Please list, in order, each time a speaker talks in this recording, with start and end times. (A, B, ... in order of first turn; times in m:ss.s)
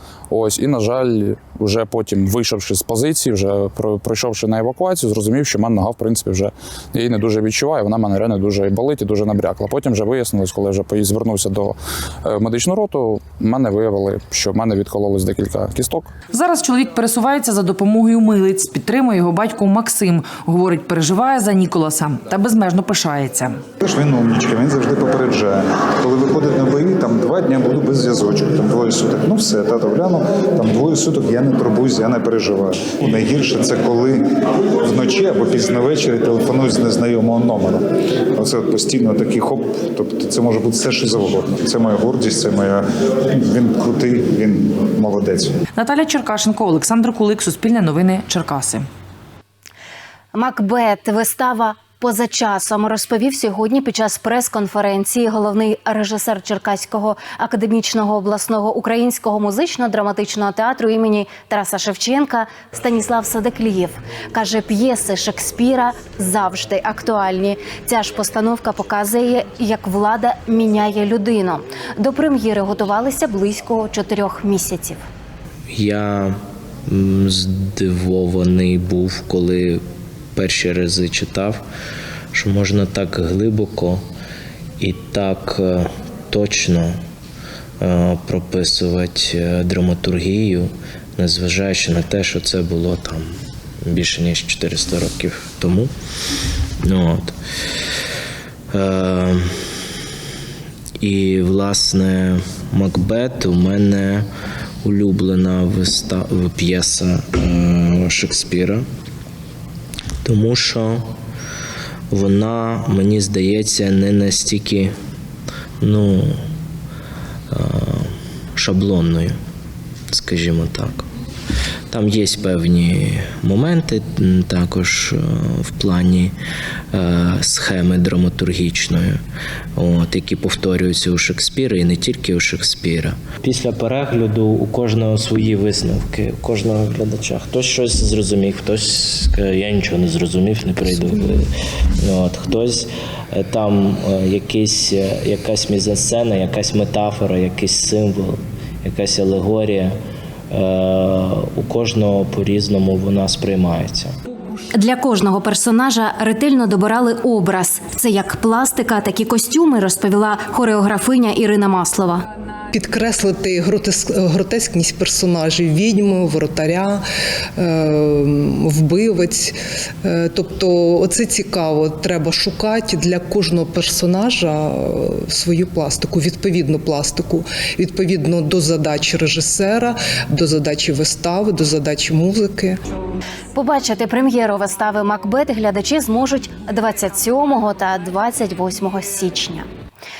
0:00.3-0:16.1 A
0:16.3-0:23.6 B
0:23.8-0:34.2 C
0:34.8-0:45.5 C
0:45.8-0:48.8 B
0:50.3-1:15.0 D
1:15.7-1:16.4 E
1:16.9-1:19.8 E
1:20.3-1:21.6 E
1:22.3-1:24.0 E
1:24.8-1:27.0 E
1:27.8-1:33.3 E
1:33.8-1:35.9 E
1:36.8-1:37.4 E
1:38.7-1:39.5 E
1:41.0-1:44.3 E
1:44.8-1:48.8 E
1:50.2-1:51.1 E
1:52.1-1:54.9 E
1:55.8-1:56.4 E
1:57.5-1:59.3 E
2:00.1-2:01.0 E
2:01.9-2:06.3 E
2:06.9-2:09.2 E
2:09.8-2:21.5 E
2:22.0-2:29.9 E
2:30.5-2:34.1 E
2:34.7-2:42.2 D
2:42.7-2:47.0 F
2:47.6-3:02.8 F
3:03.5-3:09.7 D